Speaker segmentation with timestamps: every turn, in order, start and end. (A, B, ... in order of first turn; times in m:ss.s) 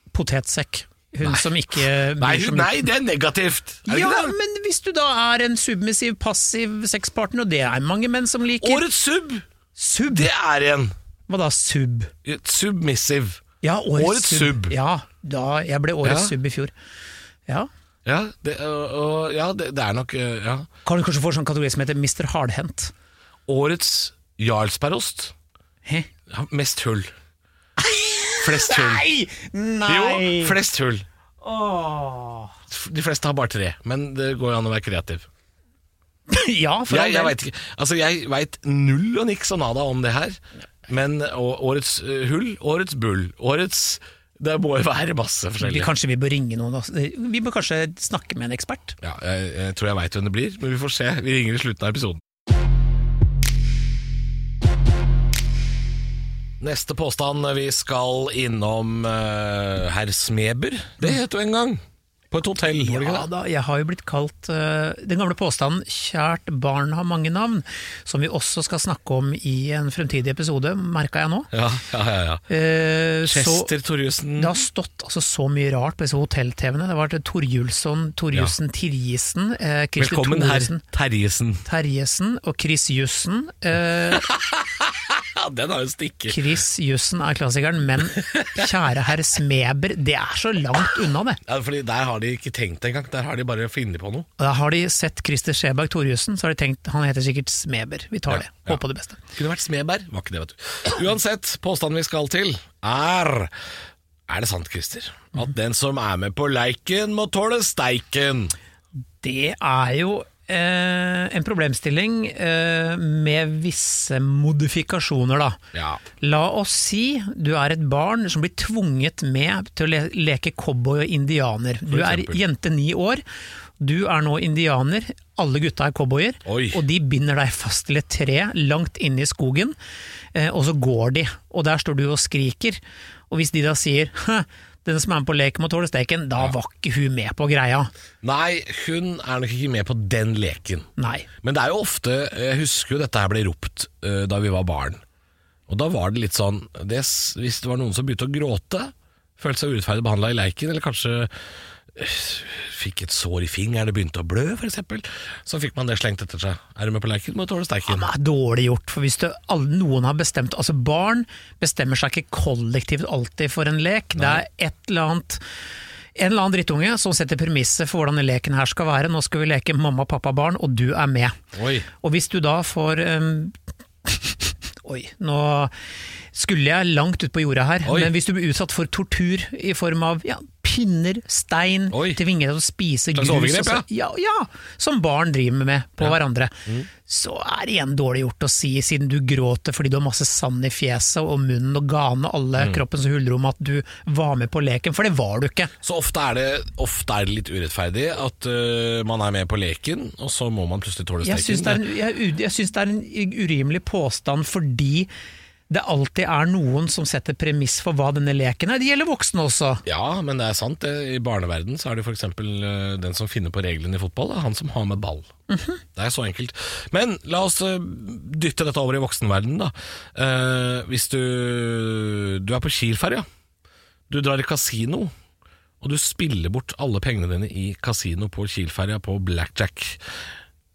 0:00.1-0:02.9 A
0:01.2-0:04.4 B
0:03.9-0:08.8 A
0:08.6-0:09.4 B
0:09.8-0:10.3 A
0:10.1-0:10.9 B
0:11.3-0:12.1 A
0:12.2-0:13.4 B
0:13.6-0:16.7 A
0:14.0-0:14.8 B
0:16.0-0:16.3 B
0:18.0-0:20.7 B
0:20.8-0:22.9 A
0:23.5-0:25.4 B
0:26.3-0:27.1 B
0:27.8-0:30.6 A
0:28.4-0:29.1 B
0:29.9-0:31.0 B
0:31.4-0:32.6 A
0:32.7-0:35.3 B
0:36.3-0:37.4 A
0:36.9-0:45.9 B
0:45.6-0:49.0 A
0:49.0-0:52.2 B
0:56.6-1:03.3 B
1:02.8-1:11.5 A
1:11.5-1:12.4 B
1:12.5-1:13.7 A
1:13.3-1:14.6 B
1:14.4-1:20.8 A
1:20.0-1:21.6 B
1:21.6-1:24.3 A
1:24.1-1:26.4 B
1:26.3-1:31.4 A
1:28.2-1:28.7 B
1:31.4-1:34.3 B
1:34.4-1:39.2 A
1:38.3-1:38.8 B
1:39.3-1:43.5 B
1:44.3-1:48.6 B
1:49.2-1:55.6 A
1:55.7-1:56.0 B
1:56.2-2:03.2 A
2:01.9-2:02.4 B
2:03.8-2:09.8 A
2:06.4-2:06.8 B
2:10.4-2:12.8 A
2:13.3-2:17.9 A
2:18.2-2:20.9 B
2:21.0-2:21.3 A
2:21.4-2:25.0 B
2:25.7-2:31.3 B
2:31.9-2:38.1 B
2:37.9-2:45.4 A
2:44.2-2:44.4 B
2:46.2-2:51.4 A
2:51.5-2:51.9 B
2:52.0-2:55.7 A
2:56.3-3:15.7 A
2:57.8-2:58.1 B
3:01.9-3:02.2 B
3:03.2-3:03.9 B
3:06.0-3:06.9 B
3:12.6-3:12.8 B
3:15.8-3:21.8 B
3:21.2-3:25.1 A
3:25.7-3:29.8 A
3:29.9-3:35.3 B
3:35.5-3:35.8 A
3:36.0-3:43.2 B
3:44.1-3:45.1 B
3:45.8-3:50.0 B